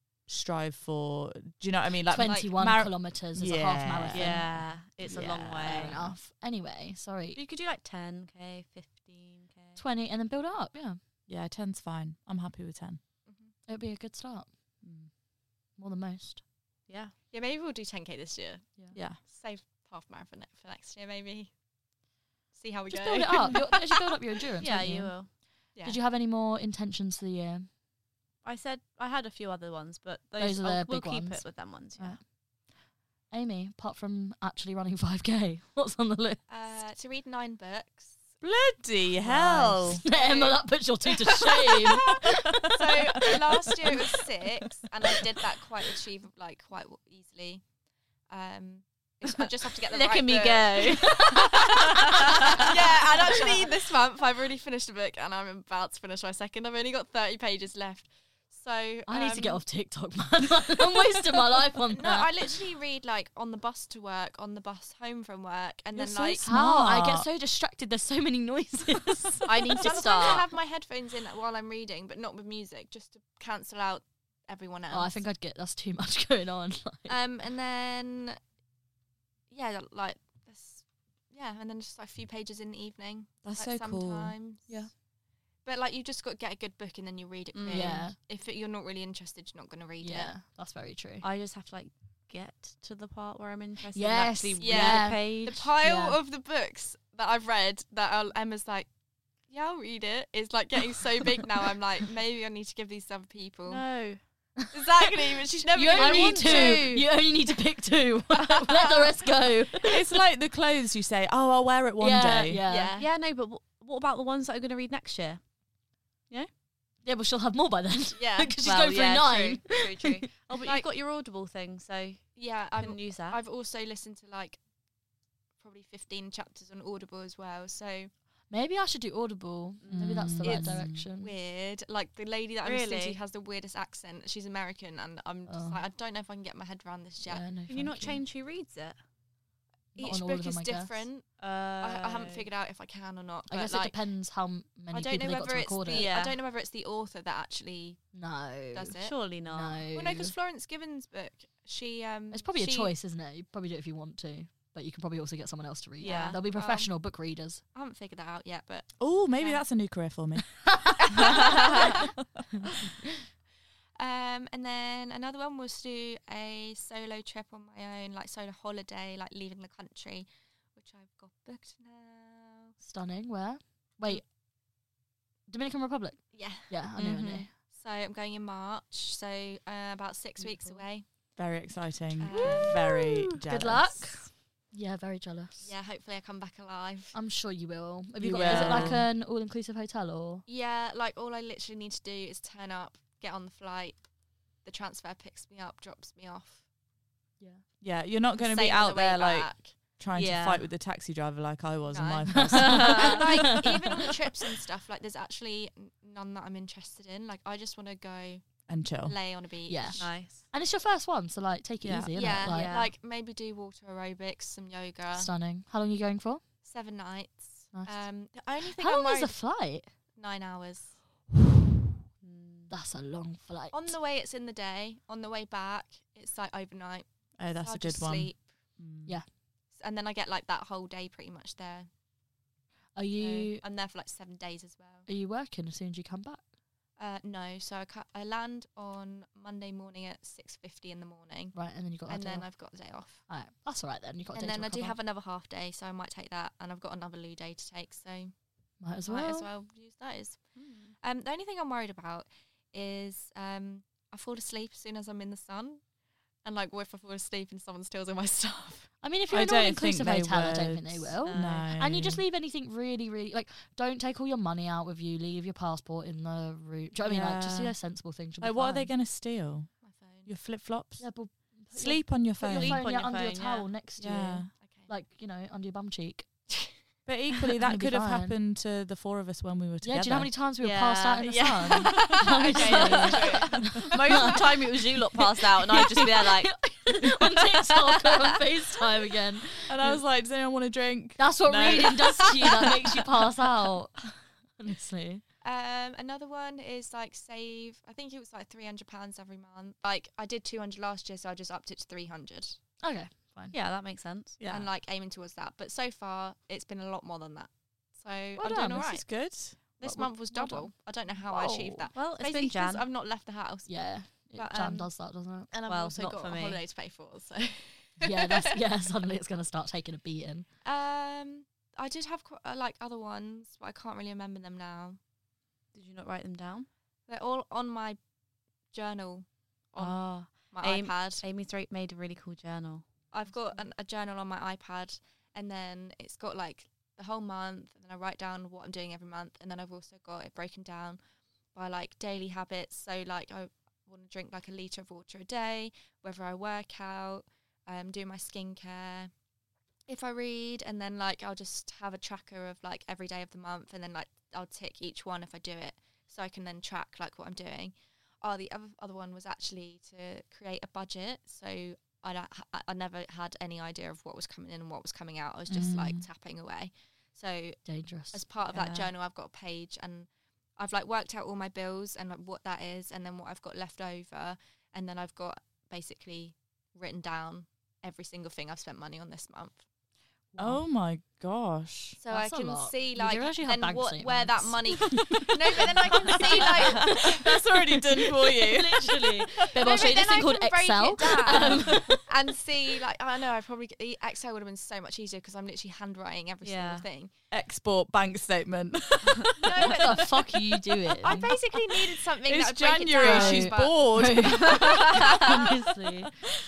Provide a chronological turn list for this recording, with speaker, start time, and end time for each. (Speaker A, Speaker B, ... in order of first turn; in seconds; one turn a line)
Speaker A: 0.3-6.1
Speaker B: 2.1-4.7
Speaker C: 2.1-2.5
Speaker D: 4.1-6.0
Speaker B: 5.6-7.4
Speaker D: 7.3-9.8
Speaker B: 9.8-11.0
Speaker A: 11.3-13.0
Speaker C: 13.2-13.5
Speaker B: 13.7-14.5
Speaker A: 14.8-15.1
Speaker B: 15.8-16.4
Speaker D: 16.9-17.1
Speaker C: 17.3-21.5
Speaker A: 18.9-19.2
Speaker C: 22.5-24.1
Speaker B: 22.9-27.7
Speaker D: 24.6-25.3
Speaker D: 28.4-32.2
Speaker B: 30.4-32.2
Speaker B: 33.3-36.4
Speaker C: 36.5-38.2
Speaker A: 38.4-40.0
Speaker B: 39.2-42.2
Speaker C: 40.0-47.6
Speaker C: 48.3-59.6
Speaker D: 49.9-53.6
Speaker B: 59.1-62.3
Speaker C: 61.9-66.5
Speaker A: 65.9-67.3
Speaker B: 66.4-70.2
Speaker D: 69.5-70.5
Speaker C: 69.5-75.2
Speaker B: 74.9-77.1
Speaker C: 77.1-78.4
Speaker C: 79.5-84.8
Speaker A: 83.4-84.3
Speaker C: 85.6-90.3
Speaker D: 87.5-88.1
Speaker B: 87.7-88.2
Speaker B: 90.0-91.2
Speaker D: 91.2-95.6
Speaker B: 93.9-96.2
Speaker C: 94.6-98.9
Speaker C: 99.5-103.8
Speaker D: 103.7-104.2
Speaker C: 104.7-106.9
Speaker B: 105.7-110.0
Speaker D: 105.9-107.0
Speaker C: 108.6-109.1
Speaker A: 109.9-112.6
Speaker B: 112.0-112.9
Speaker C: 112.7-113.1
Speaker D: 112.9-115.4
Speaker B: 117.0-120.2
Speaker C: 118.2-118.6
Speaker D: 118.6-123.4
Speaker C: 120.5-120.9
Speaker C: 122.3-124.6
Speaker C: 125.6-128.1
Speaker B: 128.5-131.3
Speaker D: 129.8-130.3
Speaker A: 129.9-131.1
Speaker C: 130.4-137.4
Speaker D: 132.6-133.2
Speaker B: 135.5-135.8
Speaker B: 137.3-138.2
Speaker D: 137.7-138.9
Speaker C: 139.9-143.9
Speaker B: 140.0-141.0
Speaker D: 141.4-142.5
Speaker B: 143.5-146.1
Speaker C: 144.9-148.1
Speaker D: 145.9-146.4
Speaker B: 148.1-148.9
Speaker C: 148.7-149.2
Speaker D: 149.0-149.8
Speaker B: 149.5-150.3
Speaker C: 149.9-152.9
Speaker B: 152.3-157.6
Speaker D: 156.0-156.4
Speaker C: 156.0-156.9
Speaker C: 157.7-159.6
Speaker A: 159.0-160.6
Speaker B: 160.7-161.0
Speaker C: 161.1-162.1
Speaker C: 164.0-172.7
Speaker B: 172.8-174.3
Speaker B: 175.5-177.5
Speaker C: 176.3-176.7
Speaker D: 177.0-177.5
Speaker C: 177.7-181.1
Speaker B: 180.4-180.8
Speaker A: 181.3-184.2
Speaker C: 182.2-182.8
Speaker B: 182.4-185.7
Speaker C: 185.6-187.1
Speaker B: 187.1-190.4
Speaker A: 188.2-189.1
Speaker C: 188.4-188.9
Speaker C: 190.5-194.0
Speaker C: 194.6-196.6
Speaker A: 197.8-203.0
Speaker C: 198.4-199.8
Speaker D: 200.1-200.6
Speaker C: 201.9-210.2
Speaker B: 202.3-203.7
Speaker D: 202.6-203.2
Speaker A: 208.7-209.1
Speaker B: 209.7-212.8
Speaker D: 210.0-210.4
Speaker D: 211.8-212.9
Speaker C: 212.1-215.3
Speaker B: 215.1-216.4
Speaker C: 216.6-219.4
Speaker B: 217.7-218.0
Speaker B: 218.6-219.9
Speaker C: 220.1-221.0
Speaker D: 222.2-222.7
Speaker B: 222.7-223.9
Speaker C: 223.7-228.5
Speaker A: 227.4-229.2
Speaker C: 229.7-231.9
Speaker B: 232.9-233.6
Speaker C: 233.2-235.1
Speaker B: 235.1-236.4
Speaker C: 237.0-243.2
Speaker B: 241.5-242.5
Speaker B: 243.3-245.0
Speaker C: 244.3-248.3
Speaker B: 248.8-249.5
Speaker C: 249.1-255.8
Speaker D: 250.6-250.9
Speaker C: 256.4-258.9
Speaker B: 259.0-268.9
Speaker A: 259.3-262.2
Speaker D: 261.2-261.7
Speaker A: 267.0-267.8
Speaker A: 268.4-269.7
Speaker C: 269.8-270.3
Speaker A: 270.2-272.9
Speaker B: 271.0-276.3
Speaker D: 272.5-273.7
Speaker A: 274.0-274.5
Speaker C: 274.6-274.9
Speaker A: 277.1-280.3
Speaker B: 277.6-278.4
Speaker B: 279.8-290.0
Speaker D: 280.6-288.2
Speaker C: 282.0-284.2
Speaker A: 289.7-292.4
Speaker B: 291.2-295.2
Speaker C: 295.4-302.6
Speaker B: 302.8-303.5
Speaker D: 303.5-304.4
Speaker A: 304.4-304.7
Speaker C: 304.4-314.9
Speaker B: 308.4-308.8
Speaker A: 308.5-309.8
Speaker B: 309.8-310.7
Speaker B: 311.3-311.9
Speaker D: 311.9-312.8
Speaker B: 313.7-315.5
Speaker C: 315.5-318.4
Speaker D: 315.7-316.6
Speaker B: 318.0-320.5
Speaker C: 320.6-325.0
Speaker D: 325.7-326.7
Speaker C: 327.1-328.0
Speaker C: 328.7-331.2
Speaker D: 329.8-332.8
Speaker C: 333.1-341.0
Speaker C: 341.5-349.1
Speaker C: 349.9-379.6
Speaker A: 365.5-366.1
Speaker B: 367.6-368.2
Speaker A: 368.5-368.8
Speaker B: 380.3-380.6
Speaker A: 380.4-382.0
Speaker C: 382.0-387.2
Speaker B: 382.1-386.5
Speaker A: 386.3-389.5
Speaker B: 388.4-392.0
Speaker C: 389.5-397.1
Speaker D: 391.3-391.6
Speaker D: 396.4-396.8
Speaker A: 397.3-399.7
Speaker C: 399.4-400.4
Speaker B: 399.6-401.3
Speaker C: 401.0-403.9
Speaker A: 402.2-404.8
Speaker B: 403.0-406.1